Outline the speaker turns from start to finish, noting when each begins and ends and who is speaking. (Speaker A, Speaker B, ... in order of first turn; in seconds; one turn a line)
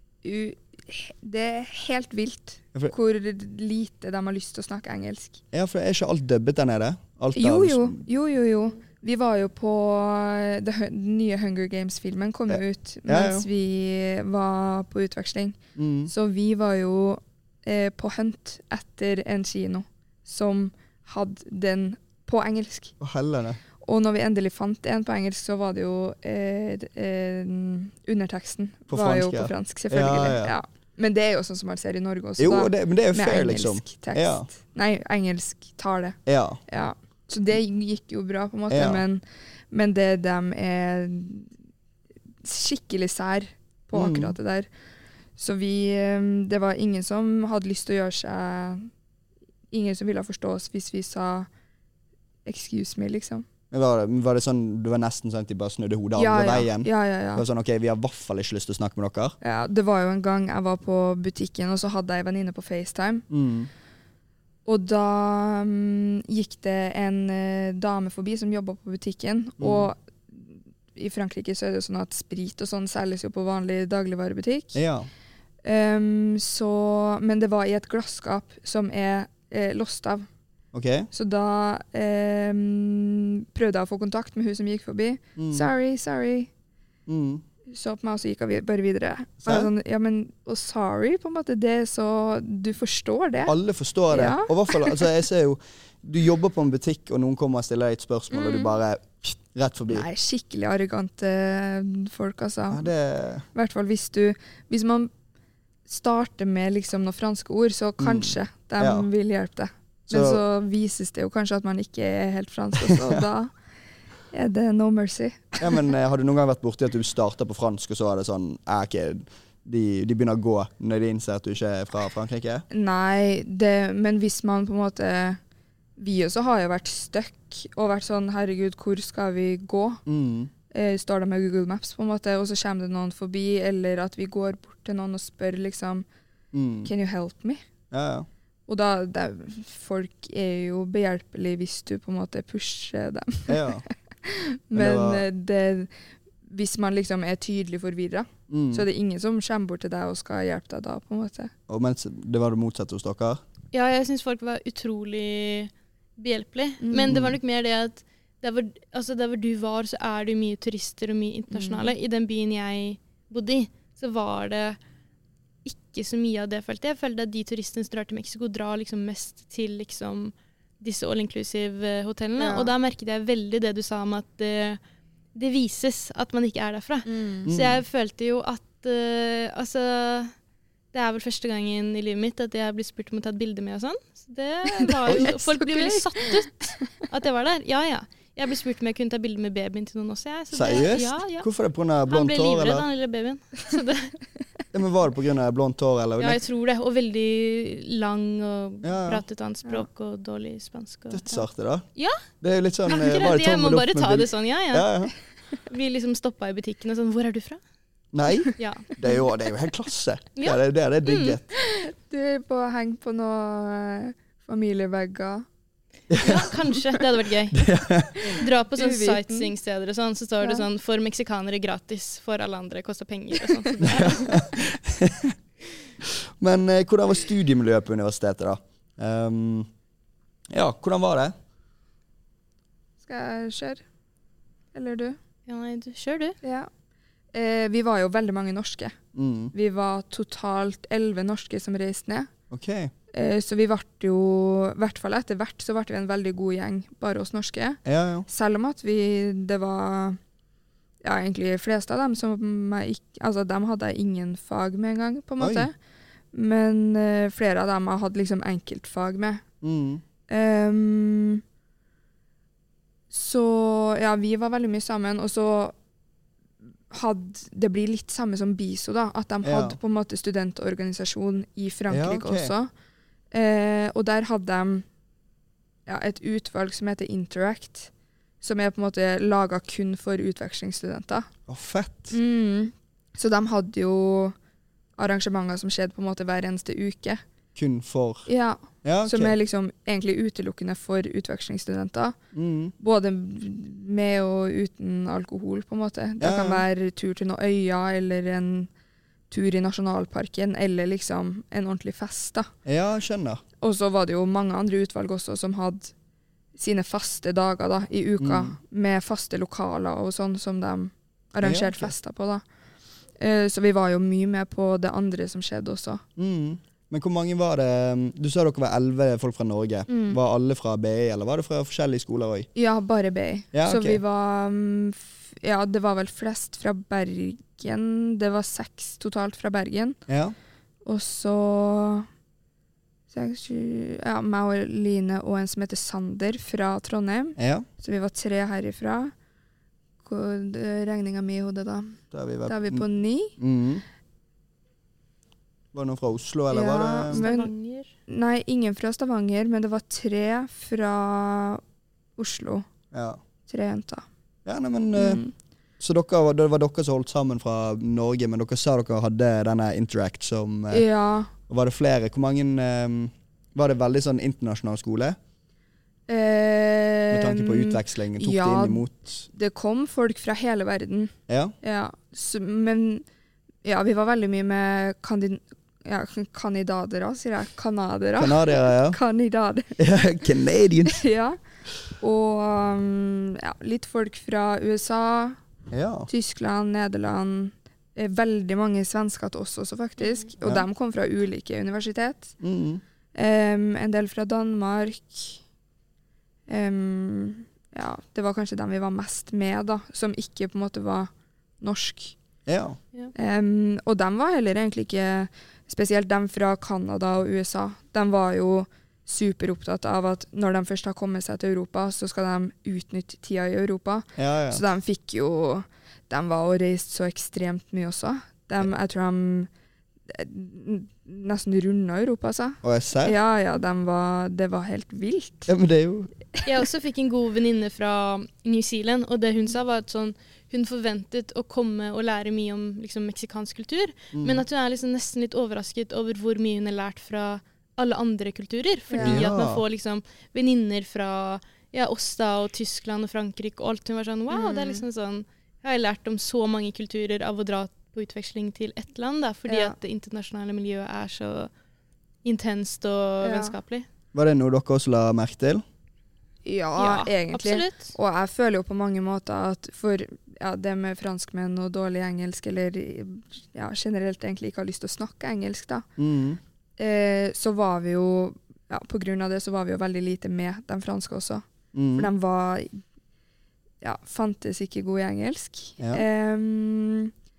Speaker A: 0.2-5.4
Speaker B: 5.5-8.0
Speaker A: 7.3-22.9
Speaker B: 12.5-13.5
Speaker B: 15.8-16.1
Speaker B: 23.0-23.6
Speaker A: 23.8-41.5
Speaker B: 28.9-30.5
Speaker B: 32.4-34.5
Speaker B: 36.2-36.6
Speaker B: 38.7-39.0
Speaker A: 42.4-44.7
Speaker B: 43.9-44.4
Speaker A: 45.4-48.9
Speaker A: 49.7-51.5
Speaker A: 52.4-53.5
Speaker B: 53.7-59.4
Speaker A: 56.1-57.4
Speaker A: 59.4-63.2
Speaker B: 63.3-63.7
Speaker A: 64.7-74.8
Speaker B: 69.6-69.9
Speaker B: 74.7-75.1
Speaker A: 75.6-80.3
Speaker B: 80.7-81.1
Speaker A: 81.1-86.5
Speaker B: 85.4-85.7
Speaker B: 87.1-87.4
Speaker A: 87.7-93.5
Speaker B: 89.4-89.7
Speaker B: 93.5-100.1
Speaker A: 94.1-95.1
Speaker A: 98.3-98.8
Speaker A: 99.9-102.9
Speaker B: 102.7-103.4
Speaker A: 103.5-105.1
Speaker A: 105.9-113.5
Speaker B: 108.0-109.1
Speaker B: 110.1-110.4
Speaker B: 112.8-113.2
Speaker A: 114.3-115.9
Speaker B: 115.6-122.6
Speaker A: 122.7-125.4
Speaker A: 126.0-130.0
Speaker B: 130.1-130.5
Speaker A: 130.7-136.1
Speaker B: 136.5-136.9
Speaker A: 136.8-137.6
Speaker B: 137.9-138.3
Speaker A: 138.7-145.9
Speaker B: 143.5-143.8
Speaker B: 144.7-145.2
Speaker A: 146.4-151.5
Speaker B: 148.5-148.8
Speaker B: 151.7-153.4
Speaker C: 153.7-164.8
Speaker A: 156.8-157.2
Speaker B: 157.1-157.3
Speaker A: 161.5-161.9
Speaker C: 165.6-174.8
Speaker A: 172.4-172.7
Speaker C: 175.3-180.3
Speaker A: 177.1-177.5
Speaker B: 177.4-177.8
Speaker C: 180.9-191.5
Speaker A: 184.8-186.3
Speaker B: 190.5-192.8
Speaker C: 192.1-194.1
Speaker B: 194.7-196.4
Speaker C: 196.2-201.4
Speaker B: 198.8-199.2
Speaker B: 201.1-201.9
Speaker C: 201.9-202.2
Speaker B: 202.4-205.1
Speaker C: 202.9-204.9
Speaker C: 205.6-207.6
Speaker B: 208.1-211.4
Speaker C: 208.5-209.2
Speaker C: 210.4-211.4
Speaker A: 211.5-215.4
Speaker B: 216.1-216.6
Speaker C: 216.2-217.7
Speaker B: 217.5-218.4
Speaker C: 218.2-224.4
Speaker A: 218.2-219.5
Speaker B: 223.8-225.3
Speaker B: 226.0-229.7
Speaker B: 230.5-231.3
Speaker A: 233.0-233.8
Speaker A: 234.7-235.2
Speaker C: 235.5-236.4
Speaker A: 236.4-236.7
Speaker A: 237.3-239.0
Speaker B: 239.1-239.5
Speaker A: 239.5-242.3
Speaker B: 242.5-242.9
Speaker A: 243.1-250.2
Speaker B: 247.8-248.2
Speaker A: 251.0-255.7
Speaker B: 255.4-255.7
Speaker A: 256.3-259.4
Speaker B: 259.6-260.0
Speaker A: 260.3-261.4
Speaker A: 263.1-265.7
Speaker A: 266.9-272.7
Speaker B: 269.4-269.8
Speaker B: 271.9-272.5
Speaker A: 273.3-274.9
Speaker A: 275.9-281.3
Speaker B: 281.5-282.1
Speaker A: 282.1-284.3
Speaker A: 285.0-287.2
Speaker B: 287.5-288.3
Speaker A: 288.3-292.2
Speaker B: 288.8-289.3
Speaker B: 292.3-292.7
Speaker A: 292.8-298.7
Speaker B: 296.2-296.6
Speaker A: 299.3-302.5
Speaker B: 302.6-303.4
Speaker A: 303.6-305.9
Speaker A: 306.6-312.4
Speaker B: 308.2-308.5
Speaker B: 311.4-311.9
Speaker A: 313.2-316.0
Speaker B: 316.2-322.5
Speaker A: 319.9-320.2
Speaker A: 322.5-330.0
Speaker B: 323.5-324.0
Speaker B: 330.1-330.3
Speaker A: 330.8-332.1
Speaker A: 333.1-339.1
Speaker B: 337.4-337.6
Speaker A: 340.0-343.4
Speaker B: 342.1-342.8
Speaker B: 343.4-343.8
Speaker B: 345.7-347.2
Speaker A: 346.5-347.5
Speaker C: 347.1-347.9
Speaker A: 348.1-351.6
Speaker A: 352.2-352.6
Speaker B: 352.9-353.2
Speaker A: 353.5-354.0
Speaker B: 354.4-355.2
Speaker A: 354.9-355.3
Speaker B: 355.8-360.8
Speaker A: 360.7-361.3
Speaker B: 361.5-365.2
Speaker A: 366.1-373.0
Speaker B: 367.1-369.2
Speaker B: 371.3-371.5
Speaker A: 373.6-380.0
Speaker B: 378.2-379.0
Speaker B: 379.8-381.0
Speaker A: 380.9-381.4
Speaker A: 382.0-385.4
Speaker B: 385.7-386.1
Speaker A: 386.1-392.3
Speaker B: 392.4-392.8
Speaker A: 393.1-395.4
Speaker A: 396.5-402.1
Speaker B: 402.5-402.8
Speaker A: 403.1-419.5
Speaker B: 414.2-414.6
Speaker A: 420.1-425.5
Speaker B: 422.6-423.1
Speaker B: 425.5-426.1
Speaker C: 426.4-451.5
Speaker B: 434.1-434.4
Speaker A: 438.9-439.2
Speaker B: 439.0-439.6
Speaker A: 444.3-444.8
Speaker A: 449.5-449.8
Speaker C: 452.2-453.9
Speaker A: 453.2-453.5
Speaker B: 454.1-455.6
Speaker A: 456.4-465.9
Speaker C: 456.8-457.9
Speaker B: 466.0-466.4
Speaker A: 466.8-471.4
Speaker B: 471.7-472.1
Speaker A: 471.9-472.8
Speaker A: 473.8-477.1
Speaker B: 475.8-476.0